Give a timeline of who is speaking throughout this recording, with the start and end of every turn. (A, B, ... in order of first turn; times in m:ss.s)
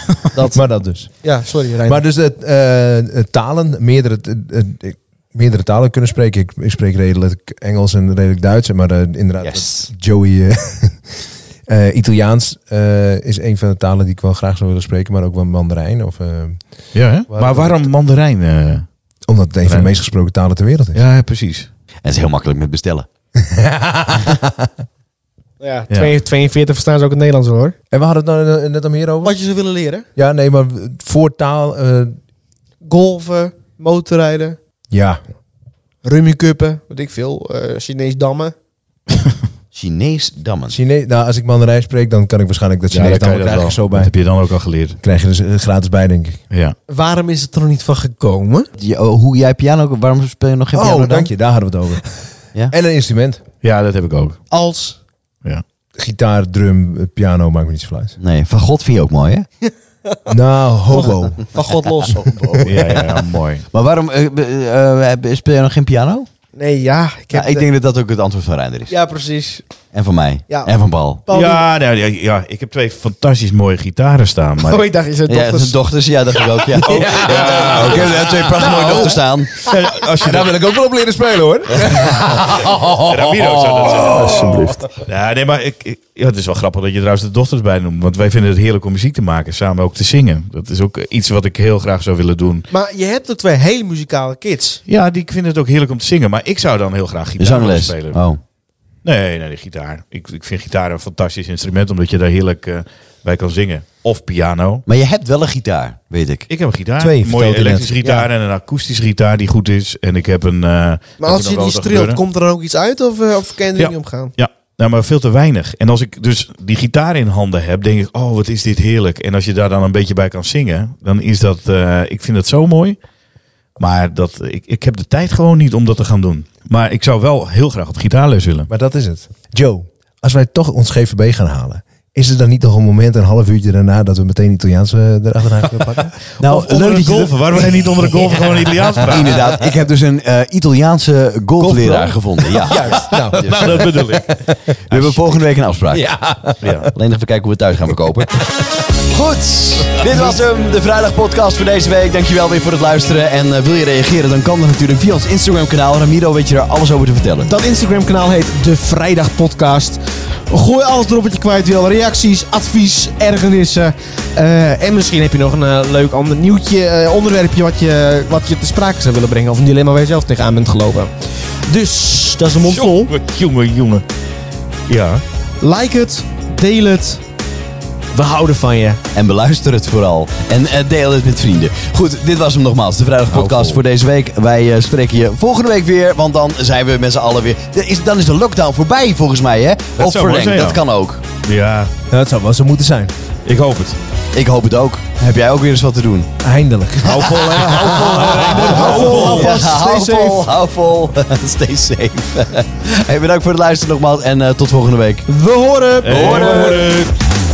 0:00.2-0:00.6 A
0:00.5-0:01.1 B
0:01.2-0:02.0 A
0:01.8-0:16.6 B
0:09.4-0:09.9 C
0:16.9-0:18.8 D
0:17.3-0:17.8 B
0:19.3-0:21.0 B
0:20.9-0:21.7 D
0:22.0-0:23.1 C
0:23.4-0:24.7 B
0:25.6-0:27.7 A
0:27.9-0:29.4 B
0:29.2-0:30.0 A
0:30.2-0:32.2 B
0:32.8-0:34.6 A
0:34.9-0:35.2 B
0:36.0-0:38.5 A
0:39.7-0:40.8 C
0:40.7-0:44.1 B
0:42.9-0:45.0 D
0:45.0-0:46.4 B
0:46.5-0:46.7 D
0:46.9-0:48.7 A
0:48.8-0:51.3 C
0:50.7-0:52.1 B
0:52.7-0:53.4 B
0:53.6-0:54.4 D
0:54.5-0:55.0 A
0:56.0-0:58.2 B
0:58.2-0:59.5 C
1:00.0-1:00.3 A
1:00.3-1:01.4 B
1:00.9-1:02.6 A
1:02.0-1:03.0 C
1:02.4-1:03.0 B
1:02.6-1:03.6 D
1:03.7-1:06.3 C
1:06.6-1:07.6 A
1:07.3-1:08.9 C
1:08.9-1:09.6 A
1:09.9-1:11.2 C
1:11.2-1:11.6 A
1:11.3-1:14.9 D
1:14.6-1:15.8 A
1:15.3-1:19.6 C
1:16.8-1:24.9 B
1:16.8-1:20.5 D
1:22.6-1:32.7 D
1:32.7-1:34.8 A
1:34.9-1:38.2 D
1:37.4-1:38.4 C
1:39.0-1:44.8 D
1:44.8-1:46.5 C
1:46.5-1:52.2 D
1:47.0-1:48.0 B
1:51.2-1:54.3 A
1:53.8-2:03.0 D
2:03.8-2:08.7 D
2:08.7-2:16.2 B
2:16.4-2:19.5 D
2:16.4-2:17.7 C
2:19.0-2:24.1 C
2:21.6-2:24.2 B
2:23.3-2:24.4 D
2:24.9-2:26.1 C
2:25.9-2:26.9 B
2:26.6-2:26.9 D
2:26.9-2:28.4 C
2:29.1-2:37.5 C
2:37.4-2:51.1 A
2:51.6-2:53.1 A
2:52.6-2:54.0 D
2:54.9-2:55.2 D
2:55.6-2:57.2 A
2:58.1-2:59.0 A
2:59.1-3:11.2 C
3:03.3-3:03.8 D
3:10.0-3:10.8 D
3:11.4-3:11.9 D
3:12.1-3:13.1 B
3:13.4-3:14.0 D
3:14.3-3:16.3 C
3:16.4-3:19.1 B
3:17.0-3:19.6 D
3:17.0-3:25.2 C
3:18.7-3:20.5 A
3:25.3-3:26.9 A
3:26.0-3:27.1 D
3:26.1-3:26.8 C